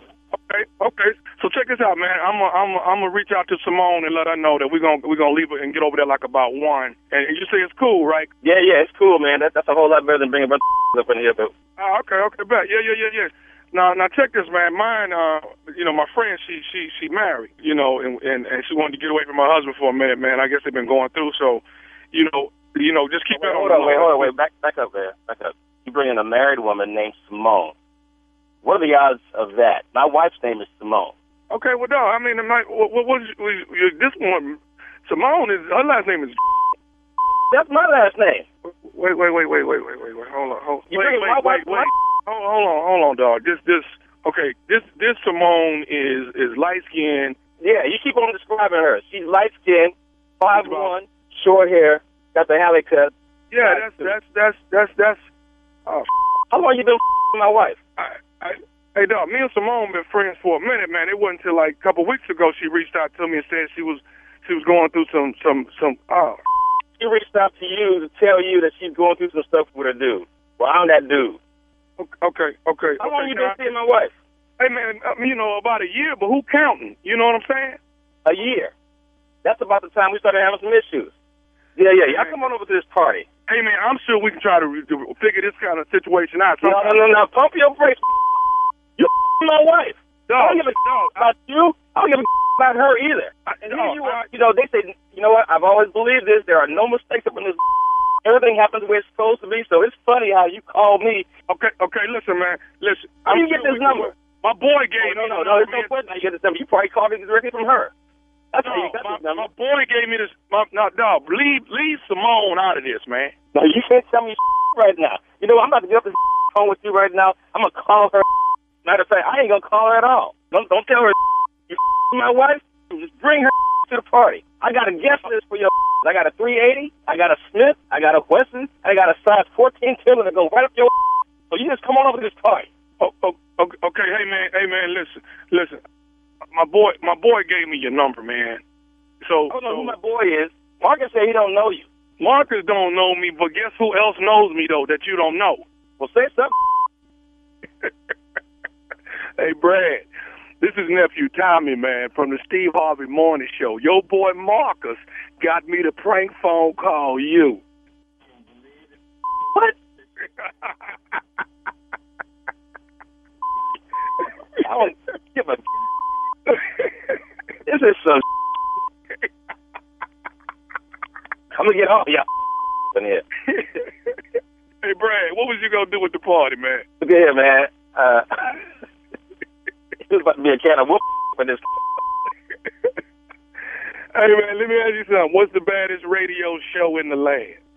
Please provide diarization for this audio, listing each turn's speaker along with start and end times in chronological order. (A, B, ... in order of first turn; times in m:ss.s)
0:00.3-0:08.3 A
0:08.4-0:11.5 B
0:11.8-0:24.3 A
0:23.3-0:27.8 B
0:28.6-0:31.1 B
0:31.5-0:36.4 A
0:37.5-0:38.4 B
0:38.6-0:47.4 A
0:40.9-0:41.9 B
0:47.6-0:53.1 B
0:50.5-0:50.9 A
0:53.5-0:55.2 A
0:53.6-0:54.1 B
0:56.5-0:57.8 B
0:58.0-1:06.4 A
1:07.0-1:11.4 B
1:12.0-1:13.6 A
1:13.0-1:14.1 B
1:14.6-1:17.8 A
1:18.2-1:18.7 B
1:19.4-1:21.1 B
1:21.8-1:23.3 B
1:22.1-1:22.4 A
1:23.5-1:27.0 A
1:26.6-1:28.1 B
1:29.0-1:37.6 B
1:30.3-1:31.3 A
1:33.5-1:34.2 A
1:38.2-1:41.3 B
1:41.5-1:45.9 A
1:43.2-1:44.1 B
1:45.0-1:47.9 B
1:48.5-1:49.4 B
1:48.6-1:53.3 A
1:53.5-1:58.3 B
1:58.8-2:01.2 B
2:01.7-2:10.9 B
2:11.5-2:12.7 B
2:13.0-2:15.8 A
2:16.5-2:18.6 A
2:19.2-2:19.9 A
2:19.5-2:21.9 B
2:22.2-2:25.6 A
2:26.0-2:26.5 B
2:29.4-2:30.0 A
2:30.6-2:37.6 A
2:44.6-2:45.6 B
2:47.6-2:48.2 B
2:51.5-2:52.2 B
2:52.9-2:53.2 B
2:53.5-2:53.9 A
2:54.8-2:56.8 A
2:57.0-2:58.6 B
3:00.1-3:01.6 B
3:04.1-3:07.6 A